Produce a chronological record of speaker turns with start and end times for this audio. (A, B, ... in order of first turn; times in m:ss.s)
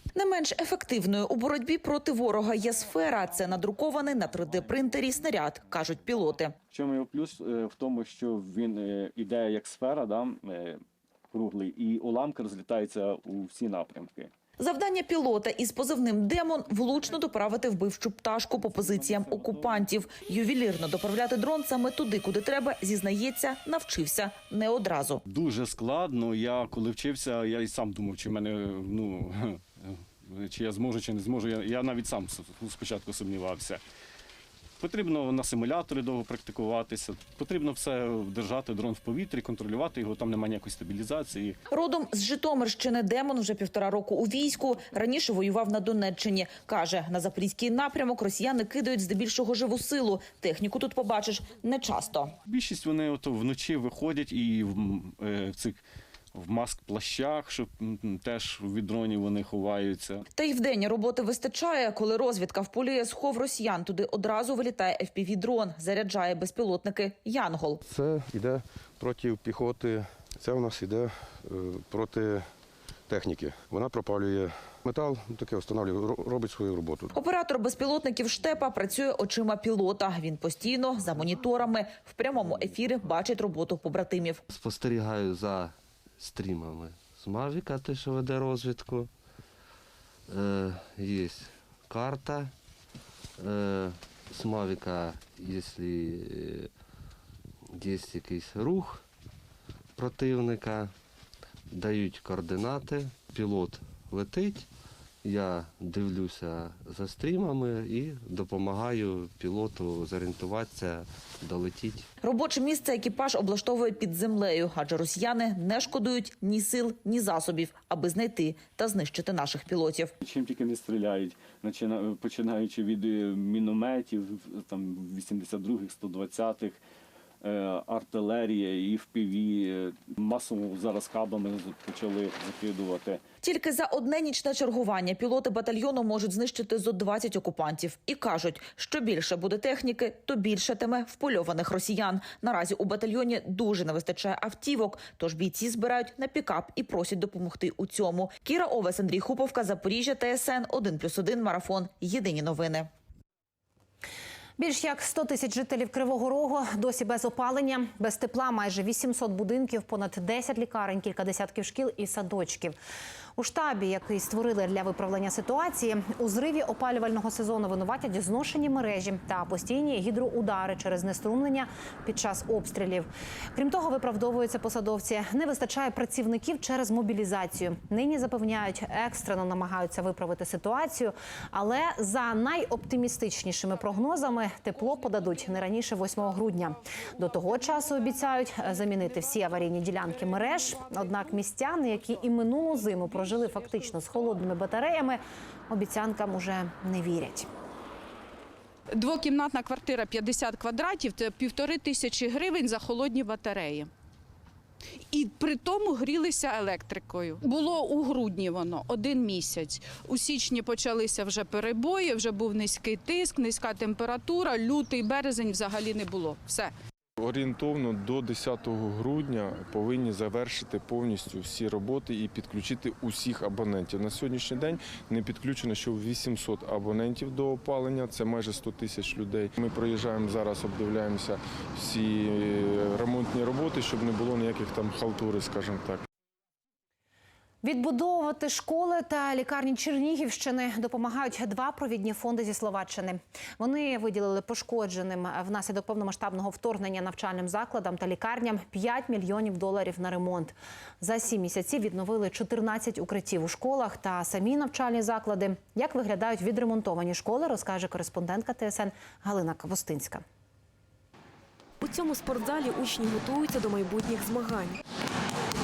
0:00.2-0:06.5 A
0:06.7-0:14.3 B
0:14.6-0:25.2 A
0:18.8-0:19.8 B
0:25.3-0:33.8 B
0:34.8-0:41.6 B
0:41.7-0:52.3 A
0:52.5-0:55.8 B
0:56.3-1:00.2 B
1:00.4-1:07.8 A
1:07.8-1:12.5 C
1:13.1-1:17.1 C
1:17.1-1:24.4 A
1:24.5-1:29.1 D
1:30.3-1:32.5 D
1:33.4-1:36.7 D
1:37.7-1:39.0 D
1:40.0-1:40.9 D
1:41.7-1:44.7 D
1:45.2-1:52.1 D
1:52.2-2:00.1 A
2:00.2-2:06.8 B
2:07.4-2:13.2 B
2:13.4-2:32.9 A
2:34.6-2:42.8 E
2:43.4-3:17.5 E
3:18.9-3:23.9 F
3:25.1-3:36.7 F
3:37.2-3:56.0 G
3:57.6-4:20.2 E
4:21.8-4:24.8 H